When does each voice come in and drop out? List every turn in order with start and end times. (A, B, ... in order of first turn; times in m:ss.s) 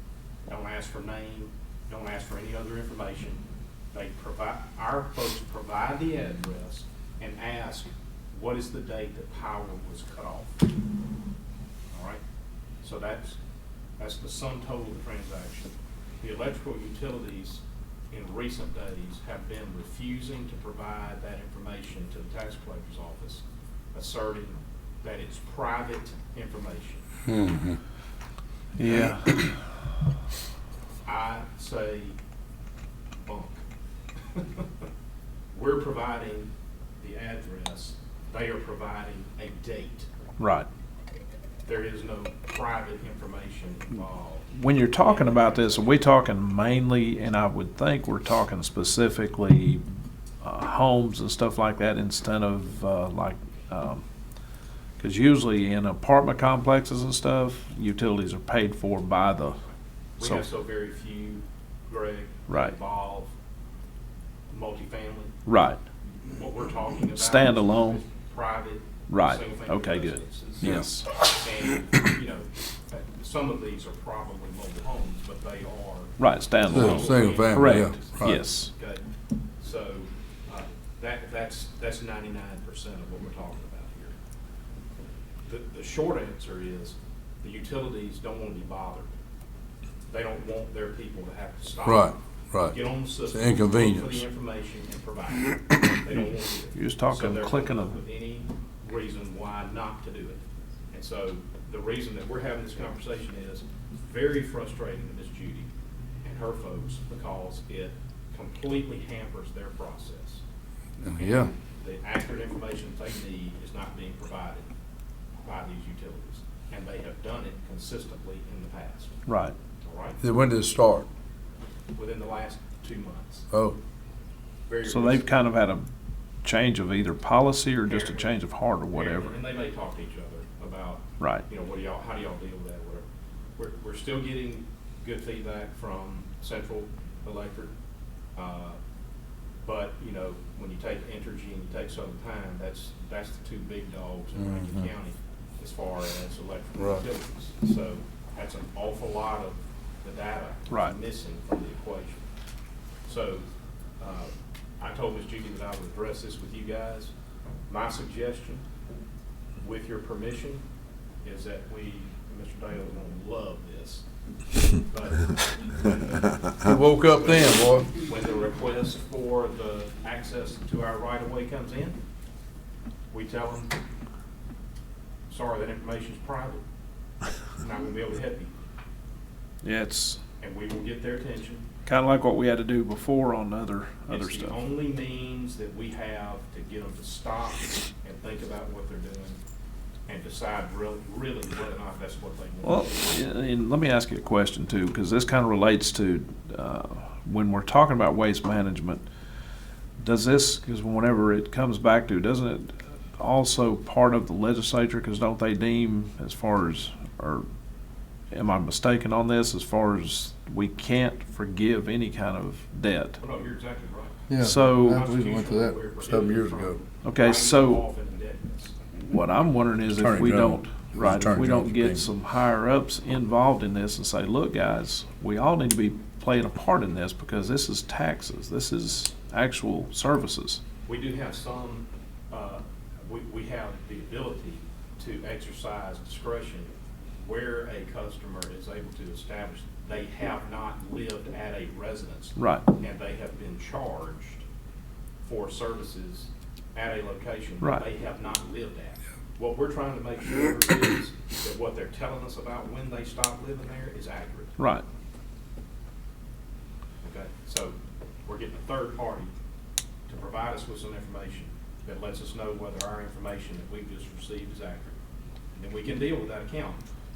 0:00.5-0:03.4 A
0:03.9-0:10.6 A
0:11.9-0:12.2 A
0:12.8-0:13.4 A
0:14.0-0:27.1 A
0:27.3-0:27.7 B
0:28.8-0:29.6 C
0:31.1-0:32.2 A
0:33.2-0:33.6 A
0:34.3-0:34.7 A
0:35.5-0:40.1 A
0:40.4-0:40.7 C
0:41.7-0:46.1 A
0:44.5-0:49.8 C
0:50.4-0:54.0 C
0:55.0-0:59.6 C
0:59.7-1:03.3 A
1:02.5-1:02.7 C
1:04.5-1:05.4 A
1:05.5-1:05.8 C
1:06.3-1:19.0 A
1:07.2-1:08.0 C
1:09.1-1:11.1 C
1:16.2-1:18.7 C
1:16.7-1:18.4 B
1:19.6-1:24.2 A
1:25.5-1:29.1 A
1:30.1-1:45.7 A
1:31.8-1:34.2 B
1:36.7-1:37.9 C
1:46.2-1:50.4 A
1:51.0-1:51.5 B
1:51.0-1:54.7 A
1:55.4-1:59.2 A
1:59.3-1:59.6 C
1:59.8-2:00.2 A
2:00.2-2:01.1 B
2:02.0-2:03.5 A
2:03.5-2:03.8 B
2:04.7-2:05.3 A
2:04.8-2:05.8 C
2:06.4-2:09.4 C
2:07.9-2:08.4 A
2:08.9-2:13.0 A
2:11.2-2:11.4 C
2:13.6-2:17.7 A
2:18.4-2:18.8 A
2:19.6-2:32.3 A
2:24.4-2:24.8 B
2:26.8-2:27.0 B
2:33.1-2:33.4 A
2:34.0-2:37.1 A
2:37.7-2:38.6 A
2:39.6-2:40.6 A
2:41.2-2:44.1 A
2:44.6-2:46.3 A
2:46.6-2:47.9 B
2:47.1-2:52.0 A
2:53.1-2:53.7 A
2:55.3-2:56.6 A
2:57.2-2:58.5 A
2:59.6-3:00.2 C
3:00.4-3:01.7 A
3:01.8-3:04.6 C
3:04.1-3:09.4 A
3:10.1-3:13.2 A
3:12.6-3:19.0 C
3:20.0-3:27.5 C
3:28.3-3:33.2 C
3:33.2-3:38.8 A
3:34.3-3:36.8 B
3:34.4-3:35.1 C
3:37.0-3:37.8 C
3:39.1-3:50.6 C
3:39.9-3:42.1 B
3:50.9-4:04.4 A
4:02.4-4:02.6 C
4:05.2-4:14.6 A
4:14.6-4:14.8 C
4:17.0-4:17.8 A
4:18.3-4:19.3 A
4:20.1-4:25.0 A
4:25.6-4:26.8 A